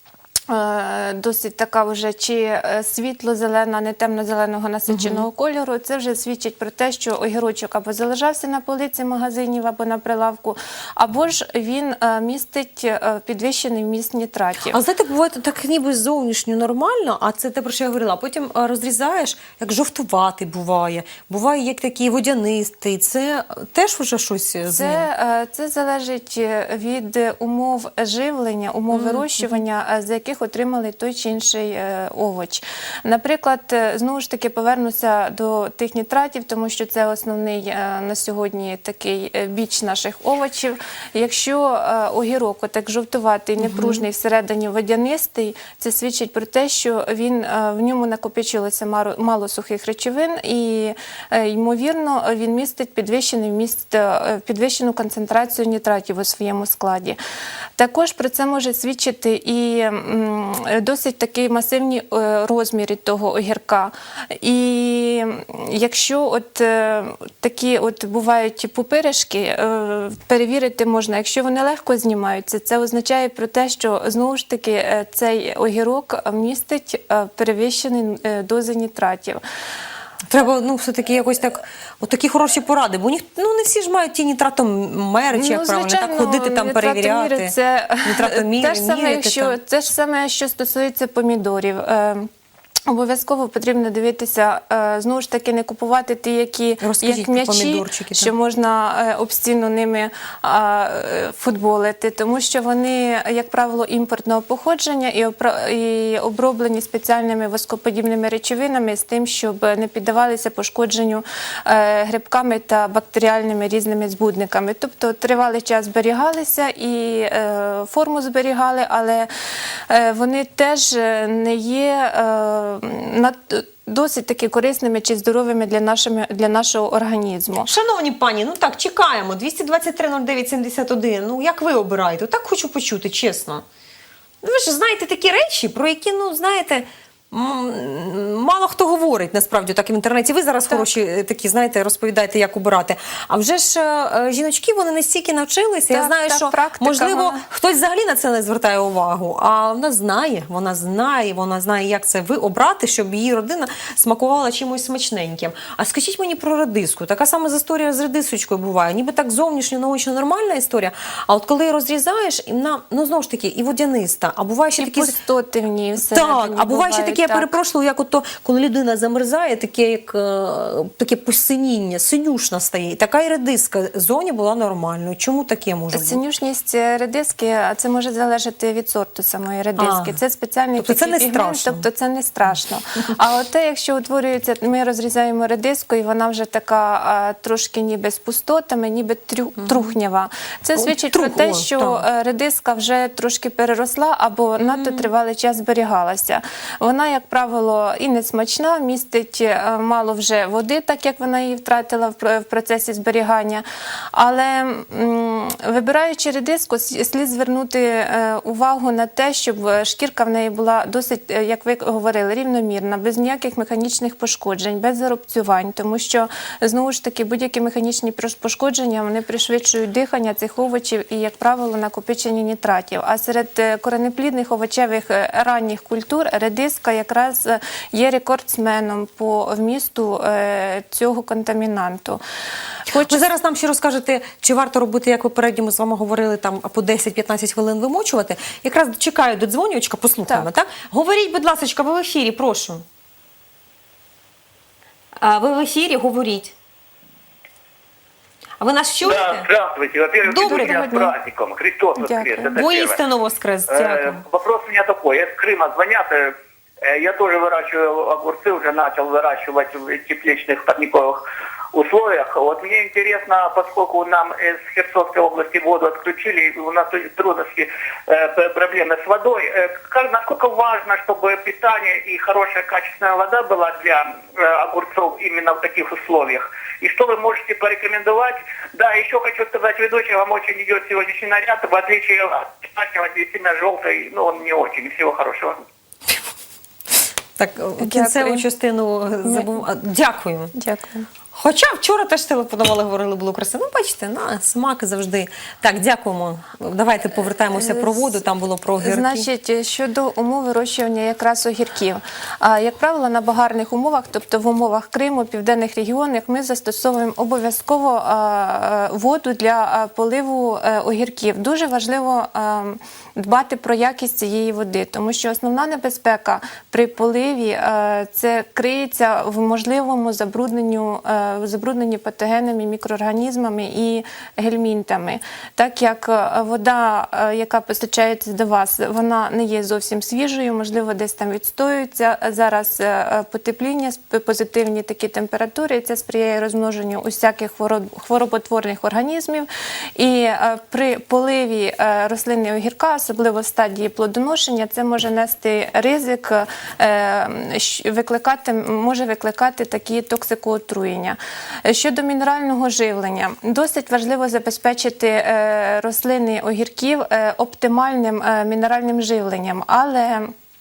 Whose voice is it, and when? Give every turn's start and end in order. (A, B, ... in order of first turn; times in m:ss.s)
0:00.5-0:14.8 A
0:04.9-0:05.2 B
0:14.7-0:25.1 B
0:24.7-0:57.2 A
0:28.9-0:29.6 B
0:43.6-0:44.0 B
0:57.8-1:19.4 A
1:20.3-1:29.6 B
1:25.3-1:32.3 A
1:32.9-1:59.3 A
1:36.8-1:38.3 B
1:59.9-2:07.7 A
2:07.6-2:13.6 B
2:14.4-2:45.2 B
2:25.9-2:27.4 A
2:44.8-2:47.5 A
2:46.0-2:56.2 B
2:55.9-3:23.6 A
2:59.8-3:00.2 B
3:00.8-3:01.8 B
3:10.8-3:12.0 B
3:14.7-3:15.1 B
3:24.1-3:52.2 A
3:52.9-3:53.2 A
3:52.9-4:02.8 B
4:05.2-4:06.5 B
4:08.6-4:09.5 B
4:09.0-4:13.0 C
4:10.3-4:11.0 B
4:10.3-4:11.1 A
4:12.0-4:12.5 A
4:12.5-4:14.2 B
4:13.7-4:21.2 C
4:21.7-4:45.5 C
4:47.4-4:50.5 B
4:47.8-4:48.5 A
4:49.2-4:49.5 A
4:50.5-4:51.1 A
4:51.3-4:59.2 B
4:57.5-4:58.2 A
4:58.8-6:00.3 A